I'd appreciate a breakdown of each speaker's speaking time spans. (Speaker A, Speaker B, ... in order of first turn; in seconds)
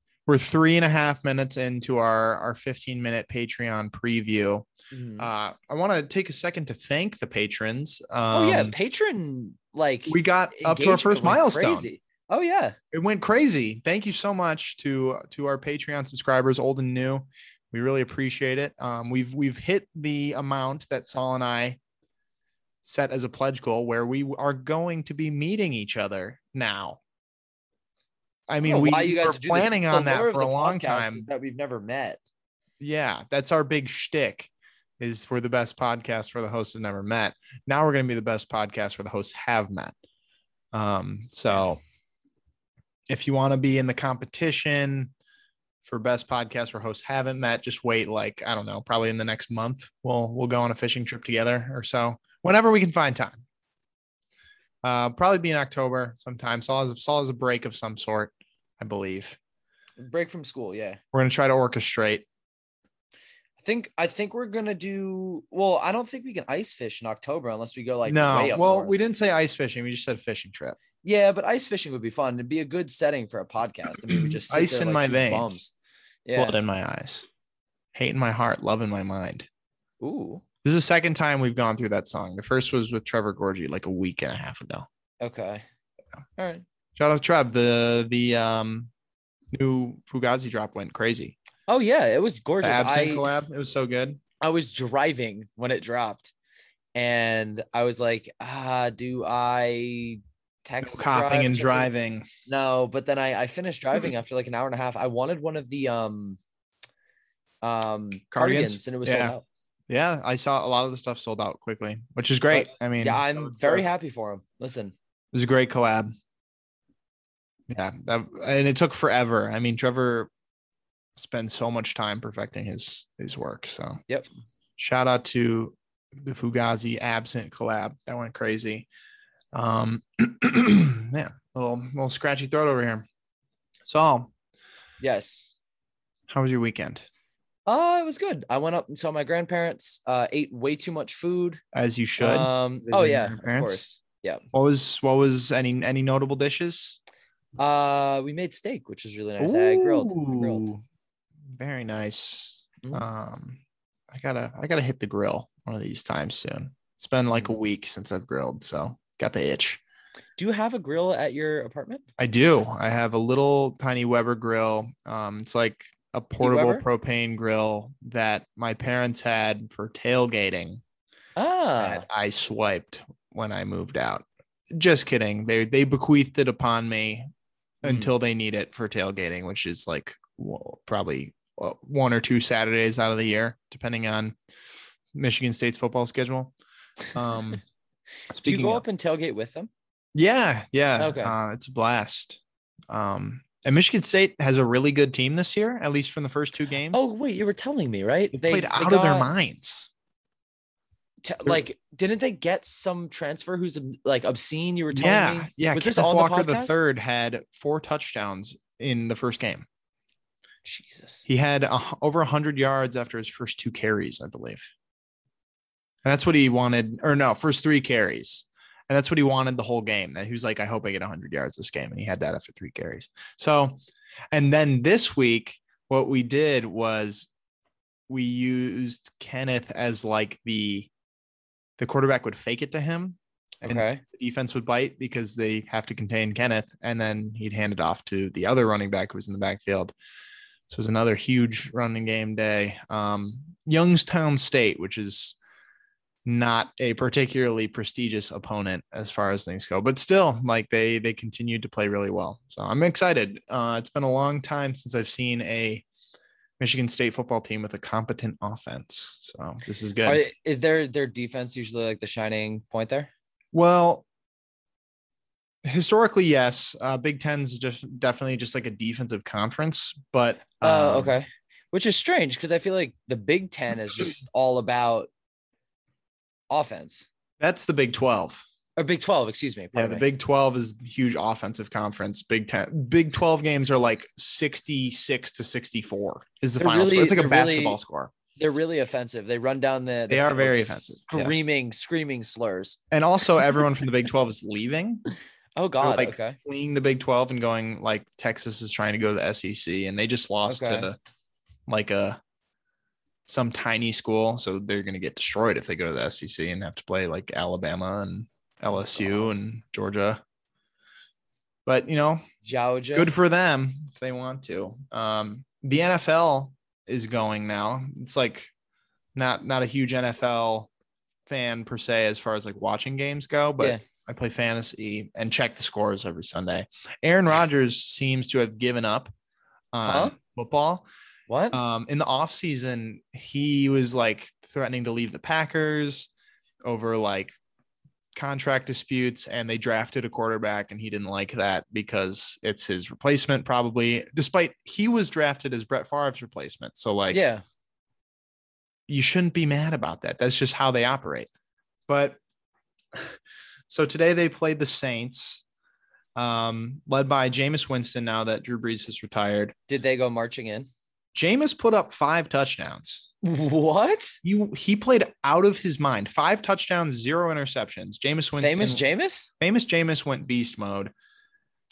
Speaker A: 0.3-4.7, 5.2-8.7, 10.1-11.9, 12.9-21.8, 22.8-27.0, 28.5-31.3, 32.8-40.0, 40.7-41.8, 43.1-45.1, 45.8-53.4, 54.8-59.4, 61.1-62.3, 68.1-70.8, 74.4-75.6, 76.3-77.3, 77.9-79.5, 80.6-84.8, 87.0-88.9, 89.5-91.4, 92.6-94.2, 100.8-102.3, 108.3-109.4, 109.9-113.8, 115.3-116.1, 117.7-120.3, 121.2-124.0, 124.8-128.9, 129.5-133.1, 133.9-134.3, 136.3-137.1, 141.7-143.9, 144.5-147.0, 149.4-150.8, 151.6-159.8, 162.2-170.8, 171.8-177.3, 177.8-184.3, 185.1-186.5, 187.1-187.6, 188.3-188.8, 190.2-197.1, 198.3-199.9, 204.9-209.7, 211.2-214.7, 216.0-223.8, 224.3-227.3, 228.1-230.9, 231.8-239.9, 240.7-245.4, 246.2-255.8, 256.6-260.2, 263.5-264.1, 265.6-271.1, 277.4-278.4, 279.7-288.1, 290.1-291.5, 292.9-295.1, 295.8-301.0, 301.7-302.2, 303.3-310.2, 311.6-312.2, 312.9-318.5, 319.1-320.7, 321.3-329.1, 329.7-330.9, 331.5-336.1, 336.6-337.4, 338.1-347.2, 348.9-351.3, 351.9-352.2, 353.7-355.4, 356.1-359.5, 361.1-363.1, 364.2-368.8, 369.4-370.9
Speaker B: 4.9-5.3, 8.3-12.8, 28.6-32.2, 60.0-61.0, 63.6-69.0, 71.0-75.7, 76.2-76.5, 80.0-80.4, 85.2-85.6, 86.4-86.6, 91.7-93.3, 94.4-96.3, 96.9-101.9, 102.5-106.4, 107.6-109.4, 112.5-114.9, 135.0-135.5, 137.7-141.6, 142.2-144.4, 147.6-150.7, 160.4-162.0, 166.4-166.8, 171.4-172.0, 177.8-178.1, 188.4-189.7, 191.0-191.3, 196.9-199.3, 201.2-206.8, 210.7-211.2, 233.7-234.0, 260.0-263.1, 270.6-275.1, 276.5-277.1, 278.8-280.1, 286.6-287.8, 288.4-292.8, 295.6-296.4, 300.4-300.9, 308.8-309.3, 312.4-313.1, 329.9-330.1, 331.3-331.6, 347.1-347.4, 359.7-360.7, 363.2-364.2, 368.4-369.3